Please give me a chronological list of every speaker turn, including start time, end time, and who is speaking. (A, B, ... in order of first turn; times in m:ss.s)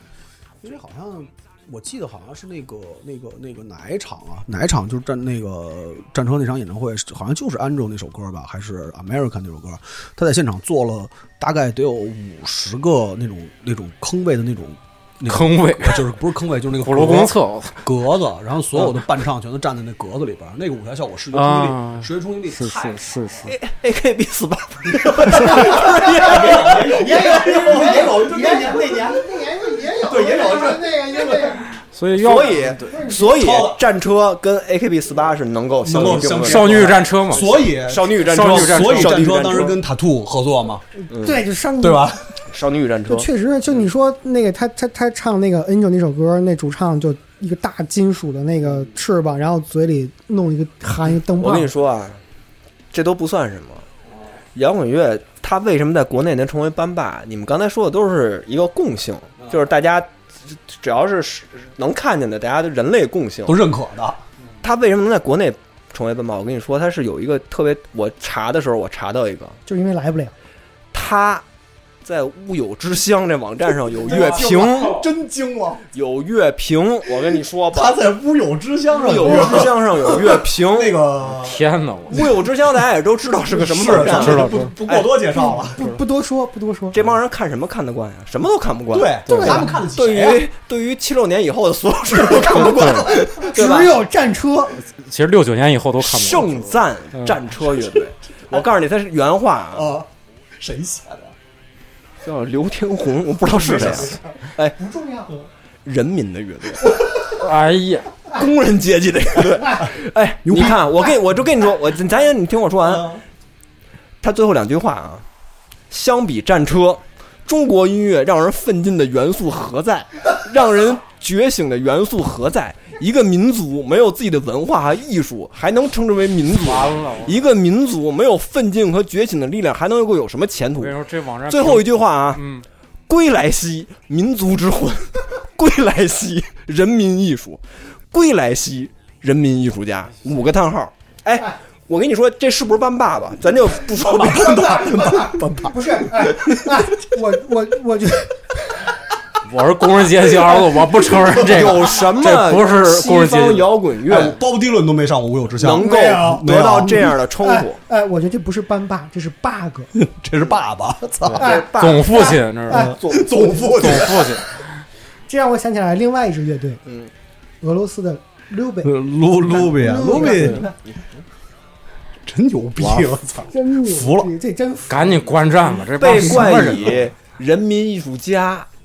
0:00.6-0:23.4 A
0:15.2-0:16.0 B
0:16.8-0:17.8 B
0:21.3-0:23.5 B
0:23.4-0:27.8 C
0:25.3-0:29.2 A
0:25.4-0:31.7 D
0:30.0-0:31.6 A
0:31.9-0:32.8 B
0:32.1-0:39.8 C
0:32.8-0:33.4 D
0:33.1-0:33.8 A
0:35.8-0:40.8 A
0:36.4-0:37.6 B
0:38.2-0:39.5 B
0:41.1-0:41.4 C
0:41.2-0:42.1 D
0:41.8-0:42.4 A
0:42.5-0:43.3 C
0:43.1-0:51.7 D
0:51.4-0:52.2 C
0:52.9-0:53.8 C
0:54.5-1:03.6 C
1:03.4-1:04.2 A
1:04.6-1:09.6 C
1:09.6-1:10.3 D
1:10.9-1:11.4 C
1:12.0-1:15.1 C
1:14.0-1:15.8 A
1:15.9-1:18.0 C
1:17.7-1:21.6 A
1:18.9-1:21.0 C
1:21.3-1:22.3 B
1:22.1-1:25.1 C
1:23.5-1:25.9 A
1:23.9-1:24.7 B
1:25.3-1:27.0 D
1:26.9-1:34.0 C
1:28.9-1:30.5 A
1:29.3-1:29.7 B
1:29.3-1:29.7 D
1:32.2-1:33.2 A
1:32.5-1:33.1 B
1:33.4-1:34.8 D
1:34.9-1:37.4 B
1:36.0-1:39.9 C
1:39.7-1:41.3 A
1:42.2-1:44.8 C
1:43.6-1:44.2 A
1:44.8-1:45.5 D
1:45.8-1:47.1 C
1:47.4-1:48.1 B
1:48.3-1:53.2 C
1:50.4-1:51.0 A
1:52.8-1:53.2 A
1:54.2-1:55.2 C
1:55.9-2:11.0 C
2:06.5-2:07.4 B
2:10.8-2:12.6 B
2:11.5-2:12.4 C
2:13.1-2:25.0 C
2:24.0-2:25.7 A
2:24.4-2:28.9 D
2:29.4-2:33.7 B
2:31.3-2:34.4 C
2:31.4-2:31.7 A
2:34.0-2:37.1 A
2:35.6-2:37.8 C
2:35.8-2:39.9 D
2:39.9-2:41.5 A
2:41.3-2:42.9 B
2:41.4-2:44.2 C
2:41.4-2:42.9 D
2:42.7-2:44.4 A
2:43.7-2:44.7 B
2:45.3-2:46.8 D
2:46.8-2:47.1 C
2:47.6-2:48.9 D
2:48.8-2:50.6 A
2:49.5-2:50.6 D
2:50.0-2:50.9 C
2:52.2-2:54.3 A
2:53.5-2:55.3 D
2:54.9-2:57.1 B
2:56.0-2:58.7 C
2:56.1-2:56.9 A